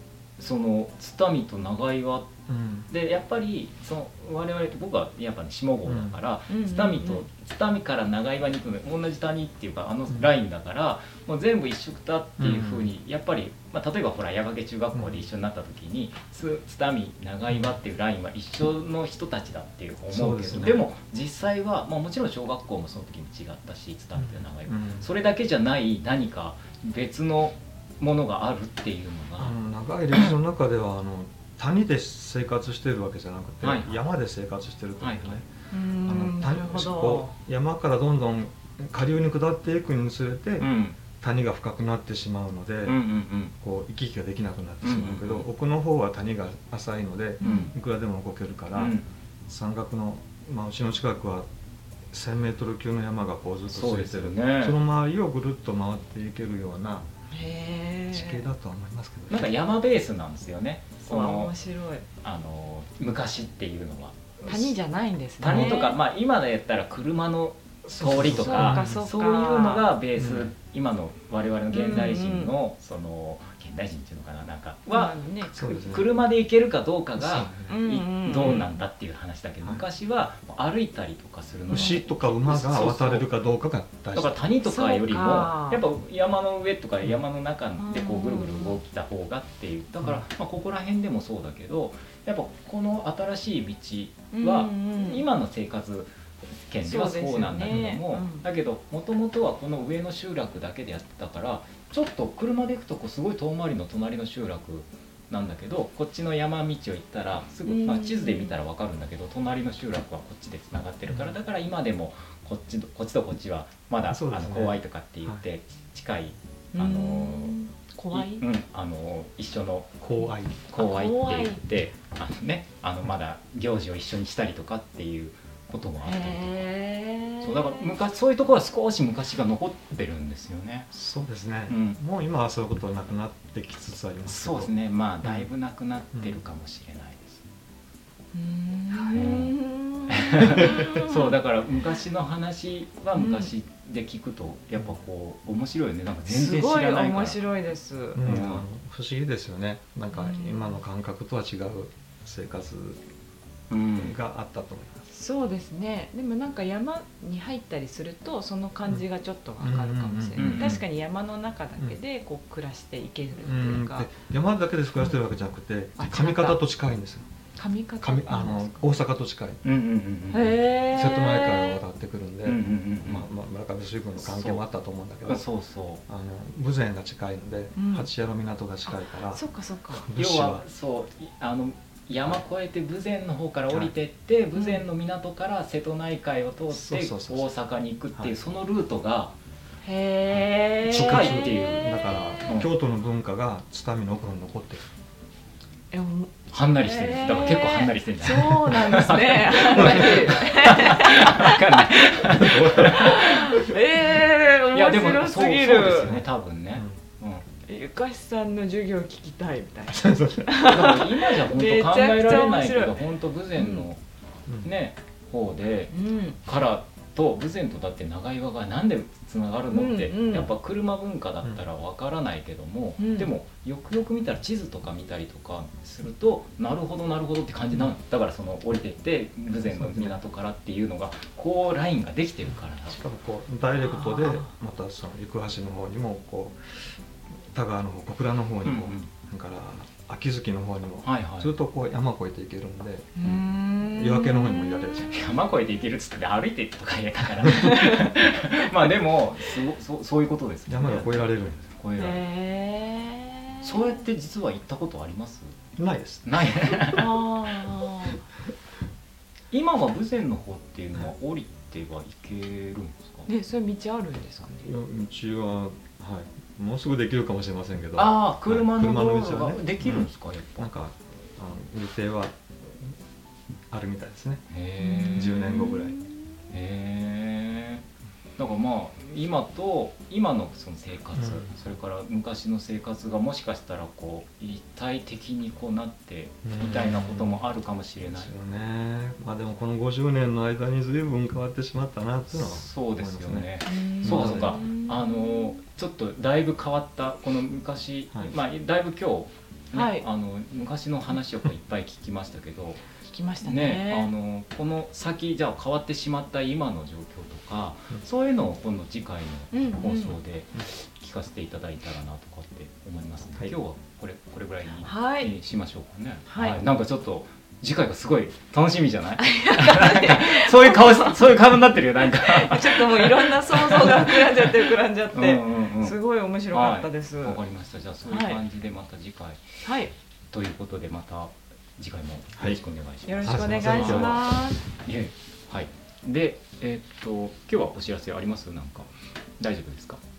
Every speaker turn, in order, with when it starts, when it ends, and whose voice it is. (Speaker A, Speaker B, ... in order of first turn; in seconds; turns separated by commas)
Speaker A: 0.4-2.3, Speaker B: 2.5-2.9, Speaker A: 2.9-29.5, Speaker B: 5.8-6.2, Speaker C: 6.5-7.2, Speaker B: 12.4-12.9, Speaker B: 14.9-15.2, Speaker B: 17.5-17.8, Speaker B: 20.1-20.9, Speaker B: 24.2-25.1, Speaker B: 29.4-35.5, Speaker A: 33.6-33.9, Speaker A: 35.0-35.4, Speaker C: 35.7-37.3, Speaker B: 36.0-43.0, Speaker A: 40.6-41.0, Speaker A: 42.8-43.5, Speaker B: 43.6-51.5, Speaker A: 44.8-45.5, Speaker C: 47.4-47.7, Speaker A: 47.4-47.7, Speaker A: 48.7-49.0, Speaker B: 52.1-57.1, Speaker A: 53.7-54.8, Speaker C: 57.3-58.4, Speaker B: 58.1-59.5, Speaker A: 59.3-61.5, Speaker C: 61.0-62.0, Speaker A: 62.2-64.7, Speaker C: 64.4-66.0, Speaker A: 65.4-83.3, Speaker B: 65.4-65.8, Speaker B: 67.8-69.0, Speaker C: 68.0-69.8, Speaker B: 70.2-70.5, Speaker C: 71.7-72.5, Speaker C: 74.9-75.8, Speaker B: 75.5-76.1, Speaker B: 77.2-77.8, Speaker C: 77.7-78.8, Speaker B: 81.7-84.4, Speaker C: 81.7-82.0, Speaker A: 84.1-96.1, Speaker C: 84.6-85.8, Speaker C: 87.8-88.8, Speaker C: 94.3-95.2, Speaker A: 96.7-117.5, Speaker C: 96.8-98.4, Speaker B: 97.6-98.0, Speaker C: 107.7-108.6, Speaker B: 111.1-111.3, Speaker B: 114.1-115.4, Speaker C: 116.7-118.4, Speaker A: 118.1-119.9, Speaker B: 120.0-120.6, Speaker A: 120.7-126.7, Speaker C: 120.7-121.6, Speaker C: 126.0-127.9, Speaker A: 127.4-130.9, Speaker B: 130.9-134.7, Speaker A: 131.7-132.0, Speaker A: 134.3-137.4, Speaker B: 135.2-135.5, Speaker B: 136.1-136.4, Speaker C: 138.3-141.4, Speaker A: 139.1-139.6, Speaker A: 140.1-147.4, Speaker B: 140.6-140.9, Speaker C: 143.2-143.5, Speaker C: 146.2-148.4, Speaker B: 148.2-153.0, Speaker A: 148.2-148.7, Speaker C: 150.1-150.8, Speaker A: 153.7-154.1, Speaker B: 153.9-155.1, Speaker C: 155.1-164.1, Speaker B: 159.6-160.8, Speaker A: 160.4-160.8, Speaker B: 163.4-167.2, Speaker C: 166.0-166.6, Speaker C: 167.6-168.9, Speaker B: 168.0-169.6, Speaker A: 169.6-170.5, Speaker C: 170.3-171.8, Speaker B: 170.8-175.4, Speaker A: 172.4-173.3, Speaker A: 174.2-174.6, Speaker A: 175.2-176.0, Speaker B: 176.1-179.4, Speaker C: 177.8-178.1, Speaker C: 178.9-180.0, Speaker B: 179.9-180.6, Speaker A: 180.1-189.3, Speaker C: 184.6-184.8, Speaker B: 186.7-187.5, Speaker C: 189.8-192.6, Speaker A: 190.8-191.9, Speaker B: 190.9-194.8, Speaker C: 195.9-202.2, Speaker A: 196.5-203.6, Speaker B: 199.7-200.3, Speaker B: 202.2-203.4, Speaker C: 202.8-206.1, Speaker A: 204.7-207.4, Speaker B: 205.9-206.9, Speaker C: 207.7-213.0, Speaker B: 209.9-210.5, Speaker A: 210.6-214.0, Speaker C: 213.6-213.9, Speaker A: 214.6-215.9, Speaker C: 215.9-216.4, Speaker A: 216.4-233.0, Speaker C: 219.7-220.5, Speaker C: 223.0-223.3, Speaker B: 229.6-230.2, Speaker B: 232.8-236.9, Speaker C: 233.8-234.5, Speaker B: 237.5-243.1, Speaker A: 238.6-239.1, Speaker A: 241.0-241.5, Speaker C: 243.2-245.1, Speaker B: 243.8-245.2, Speaker A: 245.1-252.2, Speaker C: 247.5-248.2, Speaker B: 250.7-251.6, Speaker C: 252.0-254.0, Speaker A: 253.6-255.5, Speaker B: 255.8-256.8, Speaker A: 256.2-257.1, Speaker C: 256.9-258.2, Speaker A: 259.5-263.3, Speaker C: 263.3-264.7, Speaker B: 264.6-272.9, Speaker A: 267.9-270.7, Speaker B: 273.7-274.4, Speaker A: 274.5-275.3, Speaker C: 274.8-276.2, Speaker B: 275.1-276.0, Speaker A: 276.5-277.8, Speaker A: 278.4-288.3, Speaker B: 281.1-281.5, Speaker B: 286.4-287.4, Speaker B: 288.1-293.5, Speaker A: 292.3-302.8, Speaker C: 293.6-295.6, Speaker B: 294.0-294.6, Speaker C: 299.7-300.1, Speaker C: 303.1-304.1, Speaker A: 303.4-326.0, Speaker C: 309.5-310.2, Speaker C: 314.8-315.3, Speaker C: 316.3-316.6, Speaker C: 319.2-321.2, Speaker C: 322.0-327.4, Speaker A: 326.5-329.6, Speaker C: 328.0-328.4, Speaker C: 329.6-329.9, Speaker A: 330.3-338.9, Speaker C: 333.1-334.6, Speaker B: 333.2-334.3, Speaker A: 339.4-340.0